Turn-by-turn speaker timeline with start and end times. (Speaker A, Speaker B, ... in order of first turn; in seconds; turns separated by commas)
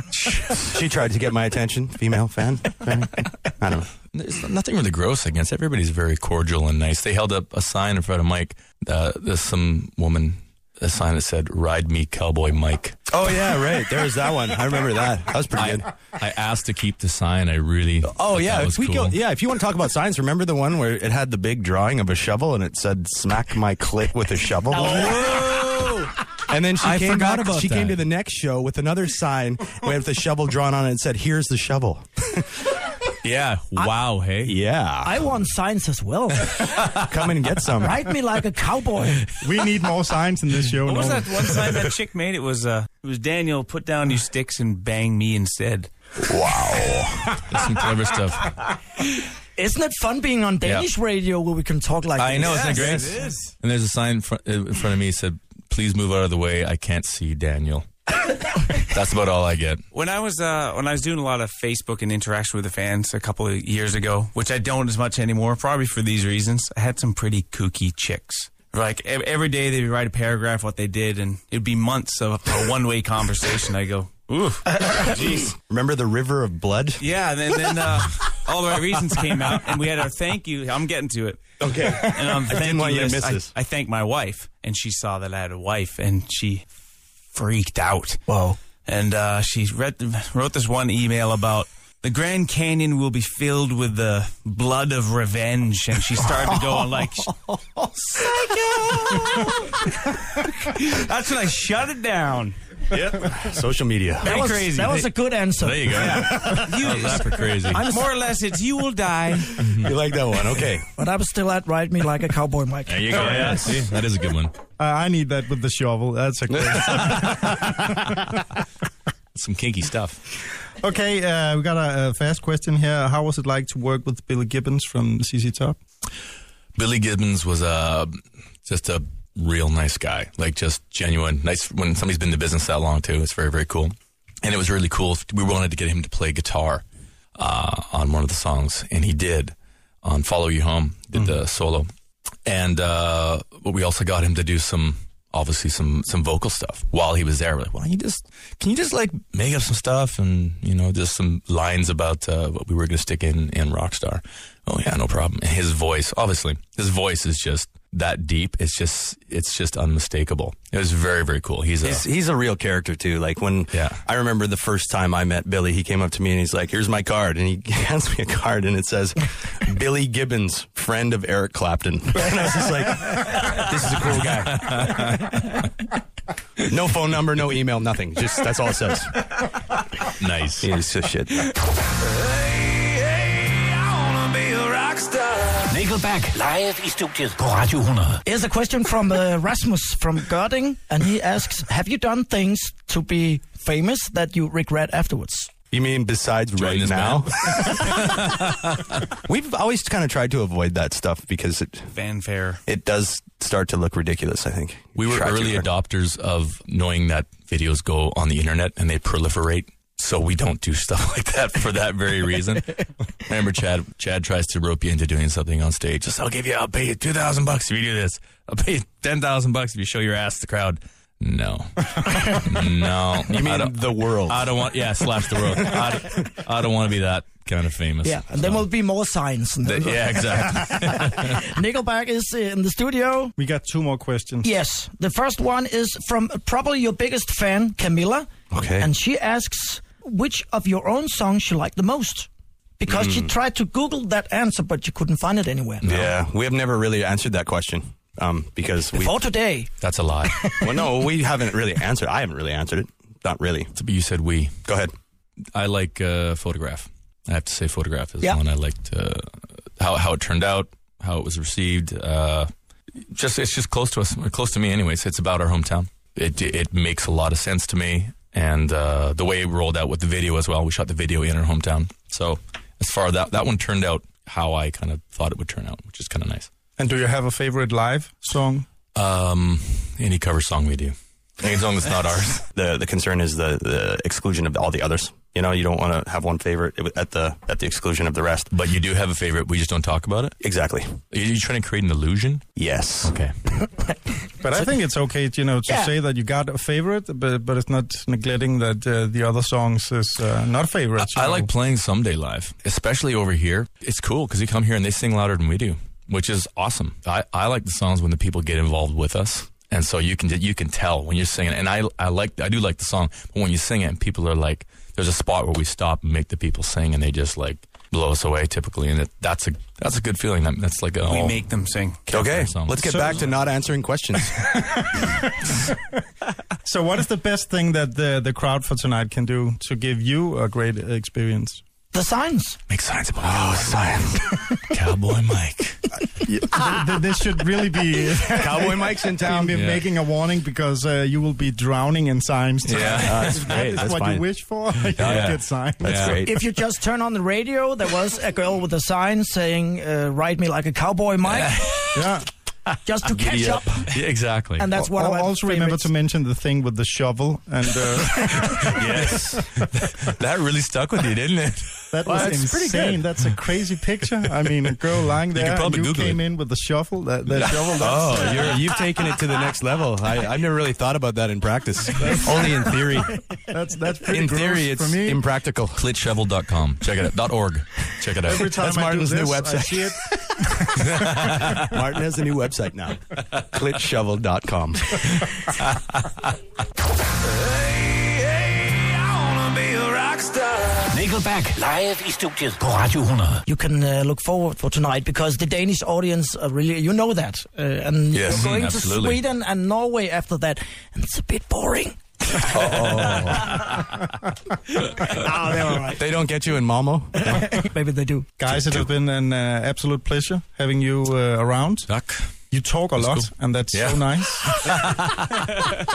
Speaker A: 0.2-0.6, Speaker B: 0.5-3.9, Speaker A: 4.1-13.1, Speaker B: 13.1-15.9, Speaker A: 15.5-19.2, Speaker B: 18.0-25.3, Speaker C: 24.8-26.2, Speaker D: 25.1-25.4, Speaker B: 26.5-32.7, Speaker A: 26.8-28.0, Speaker A: 33.2-34.6, Speaker B: 34.5-35.2, Speaker D: 35.0-36.8, Speaker B: 36.9-38.0, Speaker D: 37.8-39.2, Speaker E: 39.4-41.5, Speaker C: 40.9-45.9, Speaker B: 46.2-47.4, Speaker A: 47.4-48.5, Speaker D: 49.6-53.1, Speaker A: 50.6-50.9, Speaker A: 52.2-57.9, Speaker C: 52.4-53.5, Speaker A: 58.8-59.8, Speaker C: 59.9-75.3, Speaker B: 75.0-77.0, Speaker C: 77.0-86.7, Speaker B: 81.6-83.5, Speaker C: 87.3-88.3, Speaker D: 88.3-88.6, Speaker C: 88.8-97.4, Speaker D: 97.2-99.2, Speaker C: 98.1-102.6, Speaker B: 102.9-104.3, Speaker C: 104.2-105.1, Speaker D: 104.2-106.6, Speaker A: 105.6-108.0, Speaker C: 106.0-109.7, Speaker A: 109.5-110.0, Speaker B: 109.7-110.9, Speaker D: 111.0-113.8, Speaker A: 112.9-114.5, Speaker C: 113.2-113.8, Speaker E: 114.8-118.2, Speaker A: 119.3-120.2, Speaker E: 120.8-125.8, Speaker A: 126.8-128.1, Speaker A: 128.7-136.8, Speaker A: 137.4-141.9, Speaker A: 142.5-162.1, Speaker B: 161.8-175.1, Speaker A: 163.7-164.0, Speaker A: 174.3-175.7, Speaker B: 176.7-179.4, Speaker A: 180.1-180.7, Speaker B: 180.6-181.5, Speaker F: 185.7-188.2, Speaker D: 188.2-195.5, Speaker B: 195.7-197.9, Speaker A: 196.6-198.8, Speaker B: 199.1-201.9, Speaker C: 201.9-202.6, Speaker B: 202.7-205.7, Speaker A: 205.0-228.7, Speaker B: 223.3-224.6, Speaker D: 228.0-233.3, Speaker A: 229.6-231.4, Speaker E: 233.4-234.5, Speaker D: 234.4-238.3, Speaker B: 238.5-238.9, Speaker D: 238.8-242.3, Speaker D: 242.8-245.9, Speaker B: 242.9-243.3, Speaker A: 245.8-246.2, Speaker B: 245.8-249.2, Speaker D: 248.9-249.7, Speaker A: 249.8-250.5, Speaker D: 250.2-250.9, Speaker B: 250.6-253.7, Speaker A: 253.7-254.6, Speaker B: 254.7-254.9, Speaker A: 255.6-262.5, Speaker A: 263.1-276.5, Speaker E: 276.8-278.7, Speaker A: 278.9-282.5, Speaker B: 282.5-288.5, Speaker A: 288.5-290.4, Speaker B: 290.4-291.0, Speaker A: 291.1-292.5, Speaker B: 292.6-293.2, Speaker A: 293.1-293.3, Speaker E: 294.3-301.5, Speaker D: 295.7-295.9, Speaker A: 301.0-321.4, Speaker C: 321.1-322.1, Speaker B: 322.1-324.5, Speaker A: 322.1-323.3, Speaker E: 322.8-323.3, Speaker E: 324.4-325.7, Speaker E: 326.6-331.6, Speaker D: 331.9-332.6, Speaker A: 332.7-333.9, Speaker B: 333.2-334.4, Speaker A: 334.7-335.9, Speaker E: 336.2-346.2, Speaker B: 338.3-339.5, Speaker A: 339.5-339.9, Speaker A: 342.6-343.6, Speaker B: 343.0-344.3, Speaker B: 344.8-346.4, Speaker A: 345.0-346.2, Speaker D: 346.2-352.0, Speaker A: 351.2-351.9, Speaker E: 351.9-352.3, Speaker D: 352.8-353.9, Speaker B: 353.1-353.6, Speaker A: 353.9-354.7, Speaker D: 354.6-355.9, Speaker E: 354.7-359.4, Speaker A: 358.2-361.9, Speaker E: 361.9-368.6, Speaker B: 362.1-363.0, Speaker A: 364.4-364.7, Speaker A: 365.3-366.2, Speaker A: 367.3-368.6, Speaker B: 367.4-373.2, Speaker E: 372.0-372.7, Speaker E: 373.3-375.2, Speaker B: 374.1-375.9, Speaker A: 375.8-378.6, Speaker E: 378.2-381.4, Speaker B: 378.5-379.9, Speaker A: 380.8-381.5, Speaker B: 381.0-385.2, Speaker A: 385.6-386.3, Speaker F: 390.9-393.4, Speaker D: 393.5-403.5, Speaker A: 398.1-399.2, Speaker B: 402.4-403.6, Speaker A: 403.3-403.7, Speaker D: 405.0-406.0, Speaker B: 405.9-407.6, Speaker D: 407.2-408.3, Speaker E: 408.4-411.9, Speaker A: 408.5-408.9, Speaker A: 411.9-412.3, Speaker E: 412.5-414.7, Speaker A: 413.0-415.7